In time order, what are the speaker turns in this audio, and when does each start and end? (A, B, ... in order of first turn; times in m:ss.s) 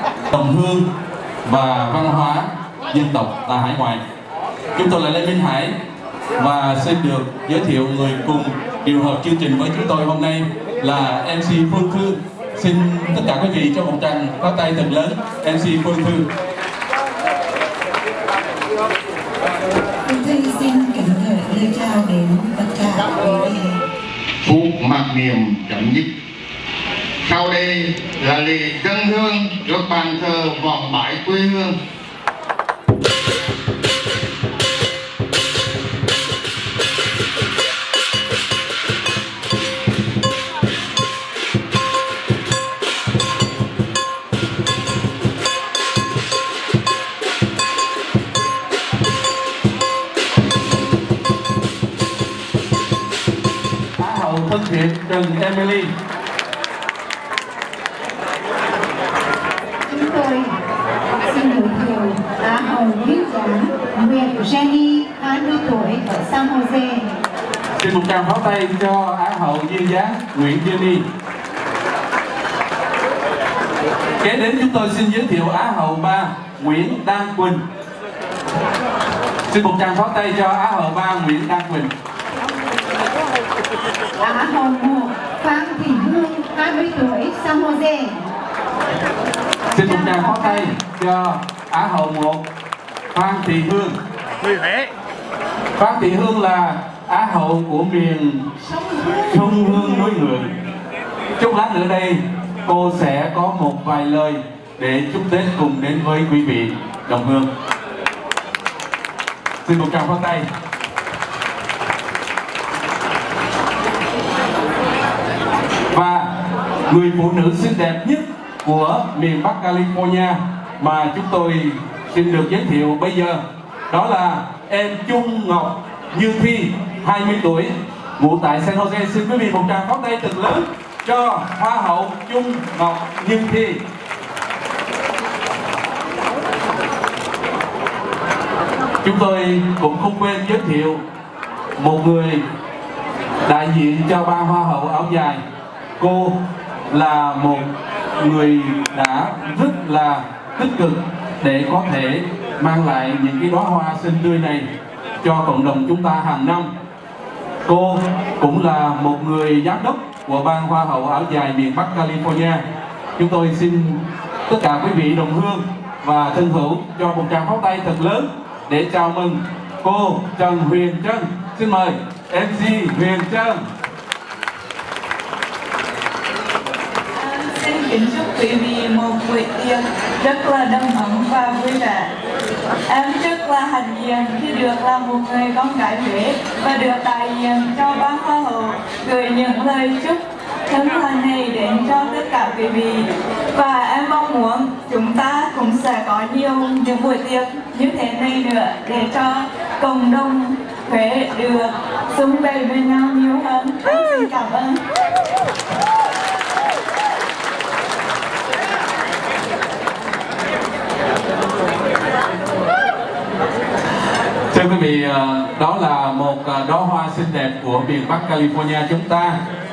0:00.3-0:00.9 A
0:01.4-0:04.0 A
0:04.7-0:05.7 A
0:06.4-0:16.3 A
0:20.2-0:23.4 B
0:24.4-0:26.1 C
0:27.2-0:31.7 C
0:54.0-0:55.9 A
0:59.9-1:00.5 B
1:01.3-1:07.1 B
1:07.8-1:11.0 A
1:14.2-1:17.6 A
1:19.5-1:21.9 A
1:24.2-1:28.2 B
1:29.7-1:32.4 A
1:29.8-1:30.6 B
1:33.1-1:34.0 A
1:35.8-1:40.5 A
1:41.4-1:47.5 A
1:49.6-1:50.4 A
1:55.9-1:56.3 A
1:56.9-2:13.8 A
2:19.0-2:21.0 A
2:21.8-2:22.4 A
2:23.4-2:25.4 A
2:26.0-2:34.7 A
2:35.2-2:36.7 A
2:37.6-2:42.6 A
2:43.2-2:53.6 A
2:57.2-3:02.1 D
3:02.9-3:24.8 D
3:34.5-3:39.4 A